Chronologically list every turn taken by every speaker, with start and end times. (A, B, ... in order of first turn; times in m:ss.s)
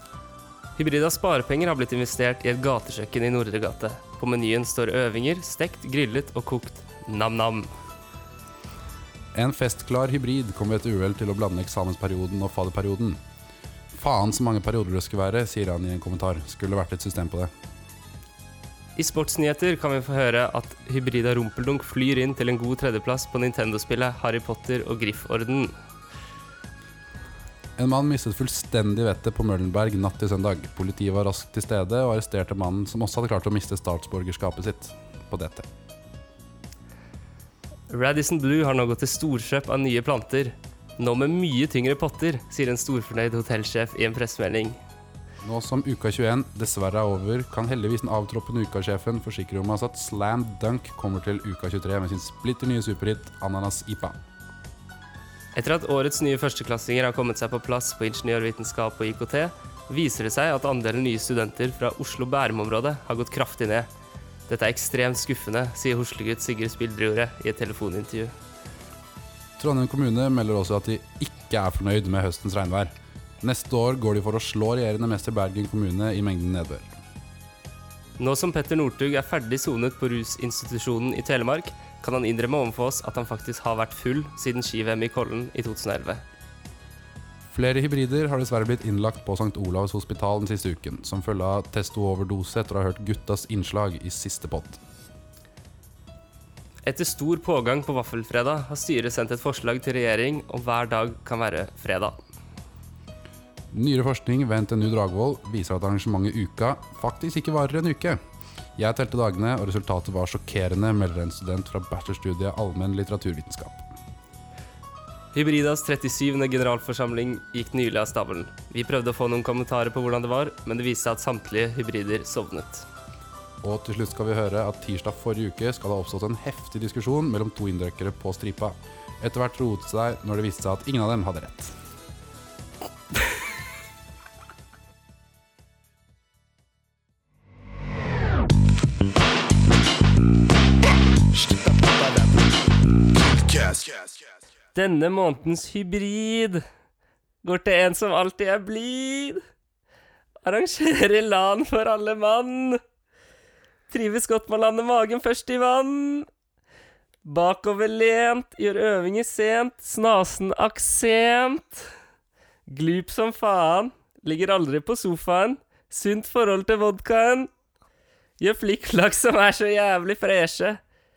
0:00.8-0:07.7 A
0:09.3-0:13.2 B
0:13.9-0:17.5 B
0:19.0-0:25.7 A
0:27.8-0:35.7 B
0:37.9-0:44.8 A
0:45.4-0:54.2 B
0:55.6-1:03.9 A
1:04.5-1:08.3 A
1:09.6-1:16.9 B
1:18.2-1:26.2 A
1:27.5-1:34.8 B
1:36.8-1:42.2 A
1:43.7-1:48.2 B
1:48.8-1:53.8 B
1:55.3-2:02.9 A
2:03.6-2:11.7 B
2:24.8-2:26.6 A
2:27.4-2:29.4 A
2:30.4-2:32.8 A
2:33.9-2:36.3 A
2:37.2-2:41.9 A
2:42.7-2:47.5 A
2:48.4-2:50.8 A